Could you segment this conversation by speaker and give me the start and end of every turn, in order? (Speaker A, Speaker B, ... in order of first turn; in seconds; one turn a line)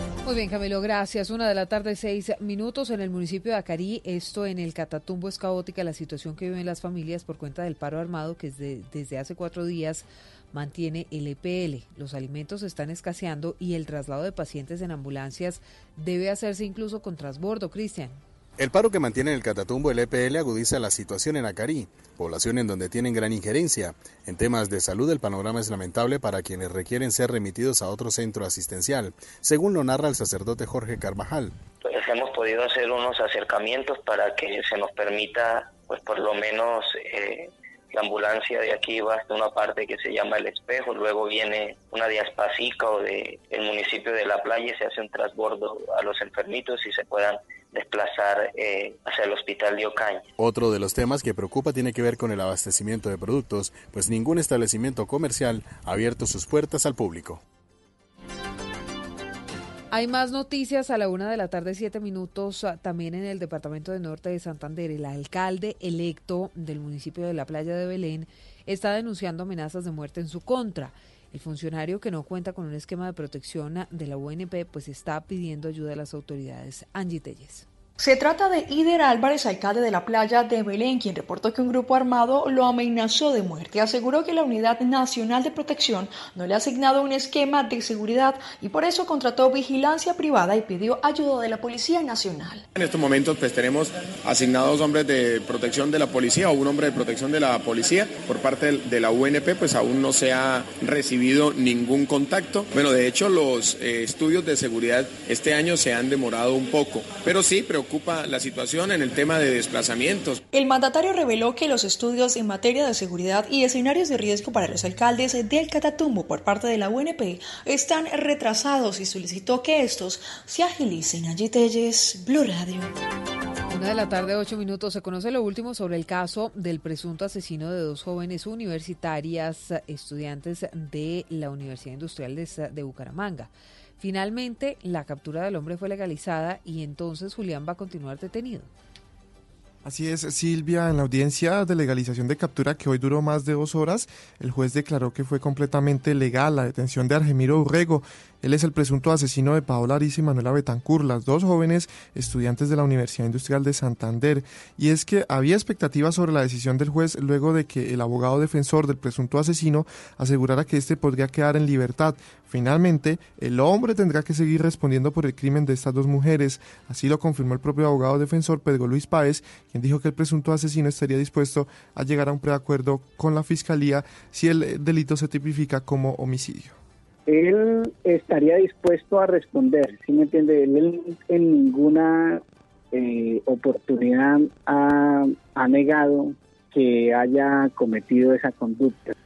Speaker A: 0.2-18.2
Speaker B: 18.6-31.5
Speaker C: 31.8-50.2
Speaker B: 50.4-57.4
Speaker A: 59.9-77.6
Speaker D: 78.0-92.6
Speaker E: 92.8-110.4
Speaker D: 110.5-122.9
Speaker A: 123.7-138.7
Speaker F: 139.8-176.8
Speaker G: 178.4-179.6
Speaker G: 180.1-180.8
Speaker G: 181.4-182.0
Speaker G: 183.1-184.2
Speaker G: 185.6-186.1
Speaker G: 186.9-188.9